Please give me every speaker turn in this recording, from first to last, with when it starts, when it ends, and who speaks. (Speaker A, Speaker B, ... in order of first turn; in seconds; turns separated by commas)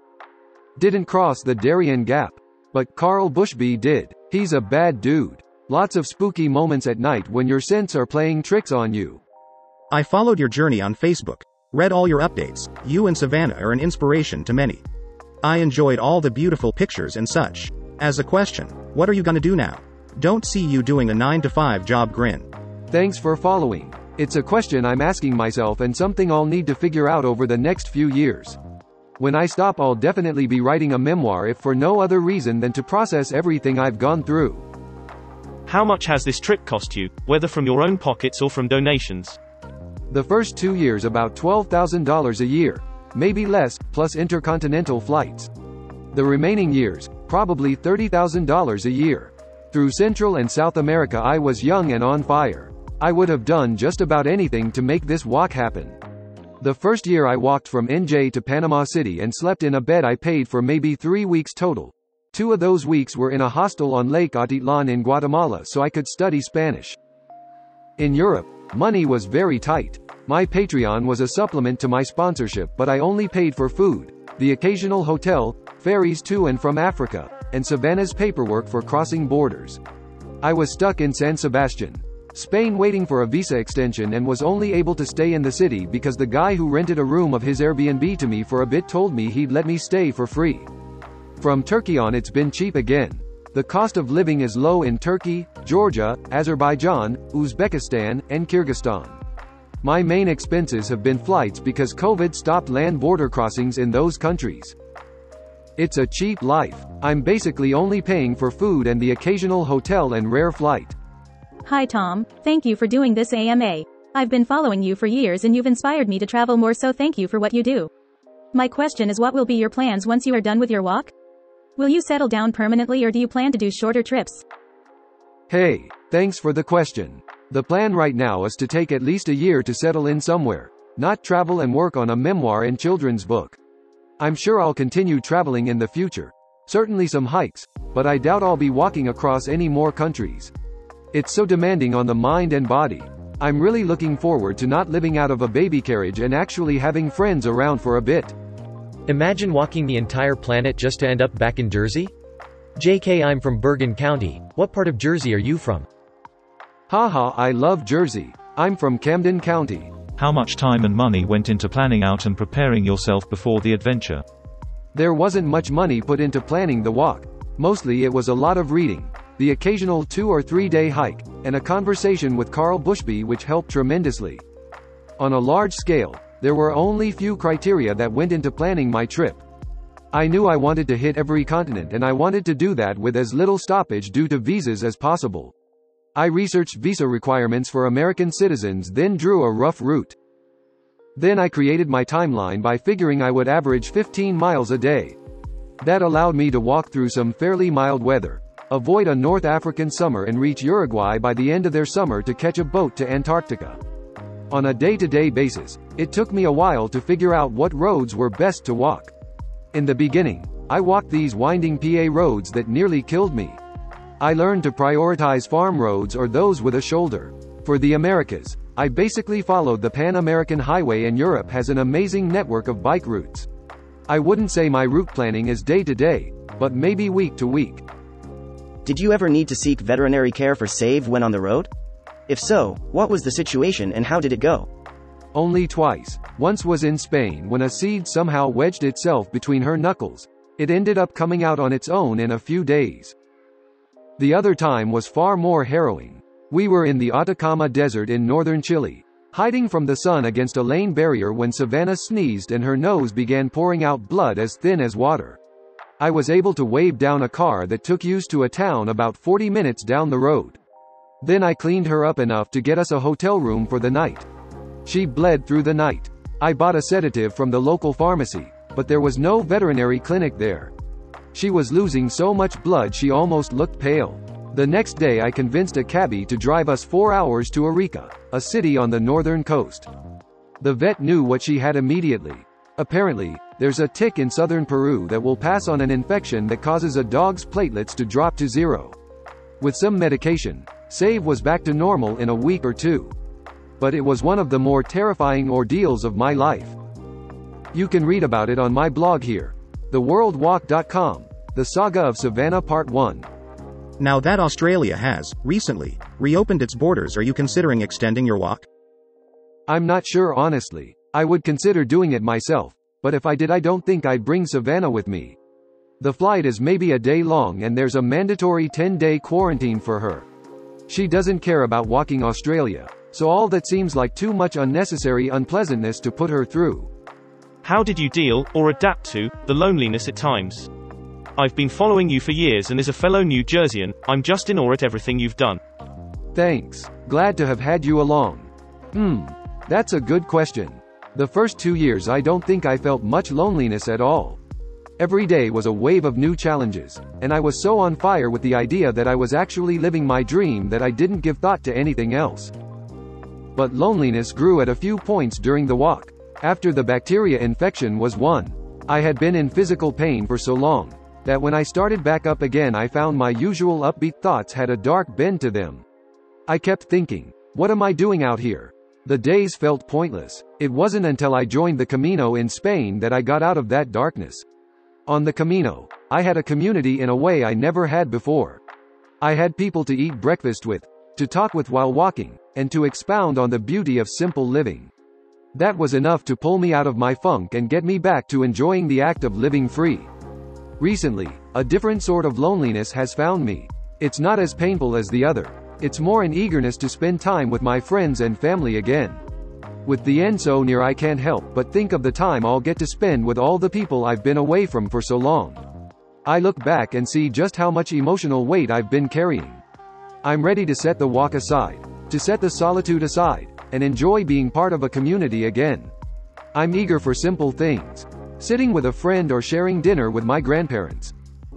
Speaker A: 0.8-9.2, Speaker B: 9.9-14.8, Speaker B: 15.4-22.5, Speaker A: 22.9-28.6, Speaker A: 29.2-34.6, Speaker C: 35.7-39.4, Speaker A: 40.1-45.5, Speaker A: 46.1-56.0, Speaker A: 56.6-67.0, Speaker A: 68.0-79.8, Speaker A: 80.4-90.7, Speaker A: 91.4-99.2, Speaker A: 99.8-104.8, Speaker A: 105.8-111.0, Speaker D: 111.7-117.9, Speaker D: 118.5-121.1, Speaker D: 121.8-124.4, Speaker A: 125.5-133.6, Speaker A: 134.2-140.5, Speaker A: 141.1-148.3, Speaker E: 149.1-152.1, Speaker E: 152.8-155.9, Speaker A: 156.9-159.9, Speaker F: 160.2-164.2, Speaker A: 164.9-174.4, Speaker A: 175.2-179.4, Speaker A: 180.1-185.6, Speaker A: 186.2-190.2, Speaker A: 191.2-195.2, Speaker A: 195.8-203.8, Speaker A: 204.5-209.1, Speaker A: 209.7-213.6, Speaker A: 214.2-223.5, Speaker A: 224.1-227.8, Speaker G: 228.8-231.7, Speaker G: 232.3-234.7, Speaker A: 235.3-243.2, Speaker A: 244.2-255.4, Speaker A: 256.0-260.6, Speaker A: 261.2-264.3, Speaker A: 264.9-270.7, Speaker A: 271.3-279.9, Speaker A: 280.6-289.0, Speaker A: 289.6-293.1, Speaker A: 293.8-296.8, Speaker A: 297.7-303.3, Speaker B: 304.0-308.7, Speaker A: 309.7-315.4, Speaker A: 316.0-320.3, Speaker A: 320.9-326.9, Speaker C: 327.6-330.7, Speaker C: 331.4-335.6, Speaker A: 336.3-344.4, Speaker A: 345.0-352.5, Speaker A: 353.6-365.9, Speaker A: 366.5-374.4, Speaker A: 375.1-378.6, Speaker A: 379.2-384.9, Speaker A: 385.6-390.1, Speaker A: 390.8-399.2, Speaker A: 399.9-405.6, Speaker A: 406.2-409.6, Speaker A: 410.2-415.9, Speaker A: 416.5-421.1